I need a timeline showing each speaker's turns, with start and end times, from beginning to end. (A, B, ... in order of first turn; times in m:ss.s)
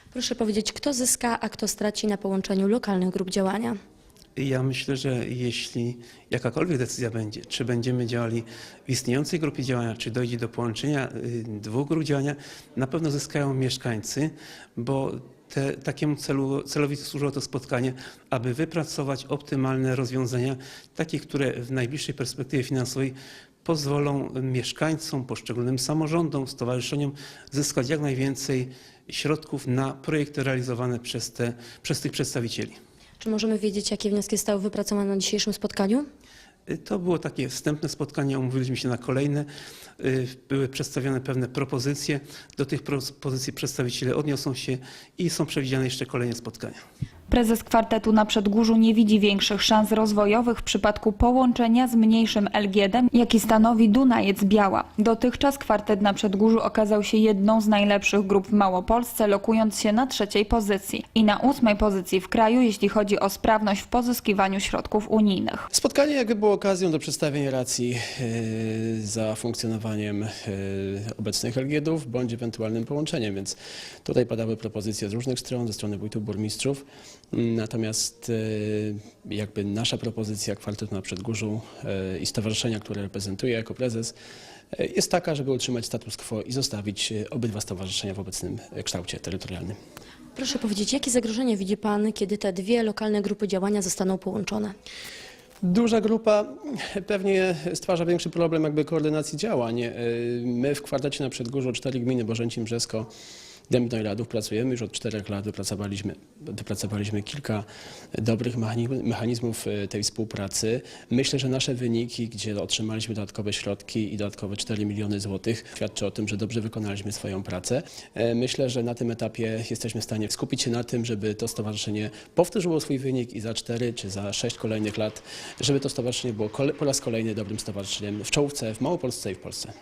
0:00.1-0:03.8 A
0:04.4-0:32.8 B
0:33.2-0:36.1 A
0:36.7-0:39.5 B
0:40.0-0:46.8 B
0:47.3-1:05.7 C
1:05.7-1:24.1 D
1:24.7-1:29.8 D
1:30.4-1:34.8 A
1:35.6-1:43.1 D
1:43.7-2:09.7 D